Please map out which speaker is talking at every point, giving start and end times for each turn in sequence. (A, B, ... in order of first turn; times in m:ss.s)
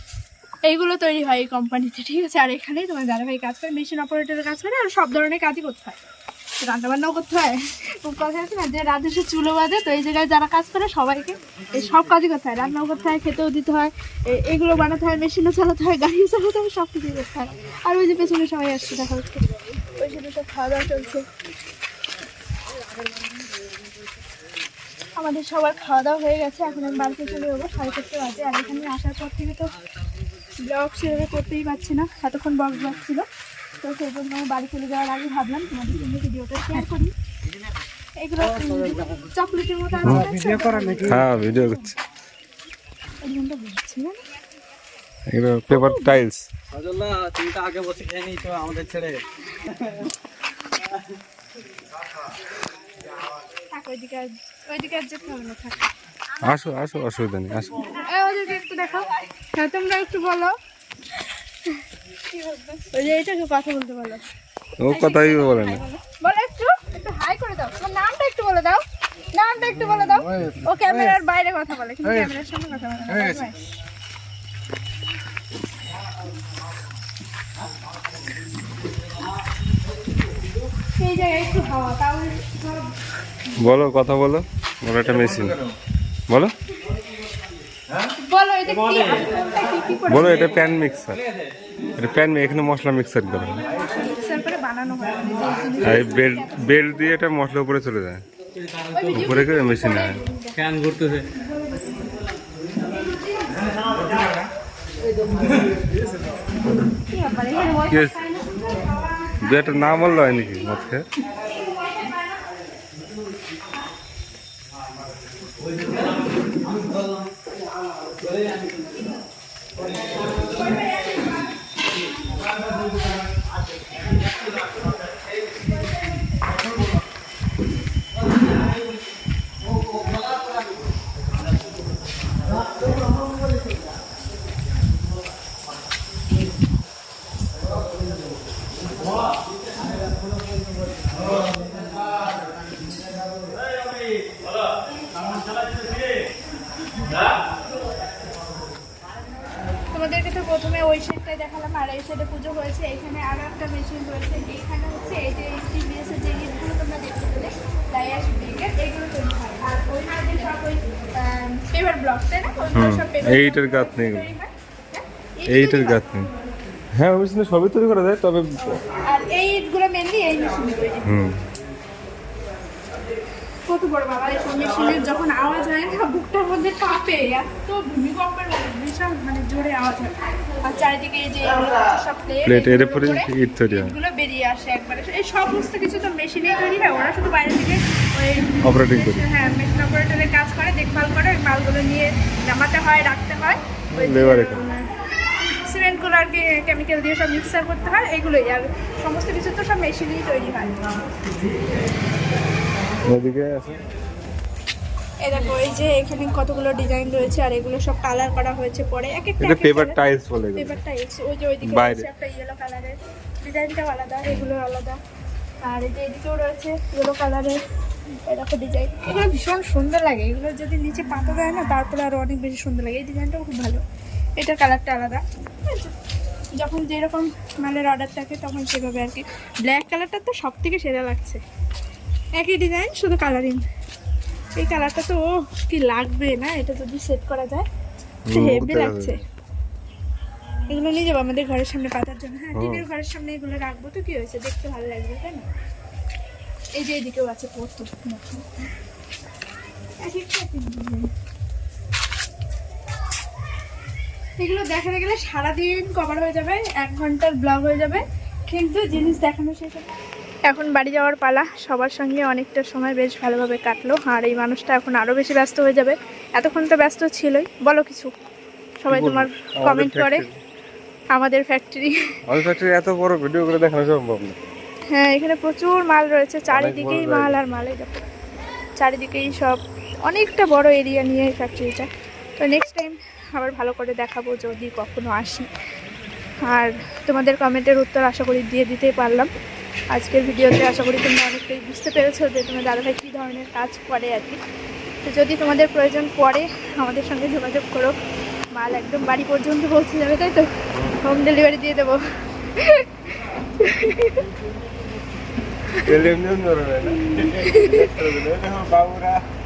0:00.7-0:06.0 A
0:06.6-0:21.2 A
0:25.2-0:29.7 A
0:30.6-0:33.3 A
0:33.8-0:37.1 A
0:38.2-0:41.9 A
0:40.0-0:40.3 B
0:40.9-0:41.9 B
0:43.2-0:44.2 A
0:45.3-0:46.5 B
0:45.7-0:46.2 A
0:46.7-0:49.2 C
0:53.7-0:55.9 A
0:56.4-0:57.8 B
0:57.8-1:00.6 A
1:02.3-1:04.3 A
1:04.8-1:05.8 B
1:04.9-1:13.6 A
1:21.0-1:22.9 A
1:23.6-1:25.7 B
1:28.1-1:30.3 A
1:30.1-1:31.2 B
1:32.0-1:33.7 B
1:33.7-1:36.7 A
1:35.8-1:38.2 B
1:38.9-1:40.7 A
1:39.1-1:40.2 B
1:40.8-1:41.2 C
1:41.2-1:42.2 A
1:42.8-1:44.4 A
1:47.1-1:49.4 A
1:47.9-1:48.2 B
1:49.4-1:51.0 B
1:51.7-1:52.2 A
2:00.2-2:01.6 A
2:29.9-2:46.2 A
2:42.8-2:44.3 B
2:45.5-2:46.3 B
2:47.0-2:48.8 B
2:48.9-2:51.1 A
2:51.0-2:51.4 B
2:53.7-3:14.9 A
3:02.4-3:03.9 B
3:08.6-3:09.2 B
3:13.9-3:14.6 B
3:15.6-3:20.8 A
3:23.1-3:23.8 B
3:25.2-3:30.0 A
3:29.4-3:30.8 B
3:30.6-3:35.0 A
3:31.6-3:32.1 B
3:35.6-3:37.6 A
3:38.2-3:43.8 A
3:44.4-3:45.9 A
3:46.6-3:51.4 A
3:52.4-3:53.6 A
3:54.6-3:57.7 A
3:58.3-3:59.2 B
3:58.3-3:59.2 A
4:00.7-4:05.5 A
4:02.6-4:02.8 B
4:06.8-4:08.5 A
4:10.0-4:11.1 A
4:14.4-4:20.0 A
4:20.5-4:28.1 A
4:28.8-4:30.2 A
4:28.9-4:30.4 B
4:31.1-4:31.9 A
4:32.3-4:34.4 B
4:34.9-4:38.1 A
4:36.5-4:37.4 B
4:38.8-4:45.5 A
4:46.5-4:49.3 A
4:49.9-4:54.4 A
4:55.0-4:58.0 A
4:58.5-5:00.5 A
5:01.0-5:03.0 A
5:03.6-5:04.3 A
5:05.9-5:09.2 B
5:07.4-5:07.9 A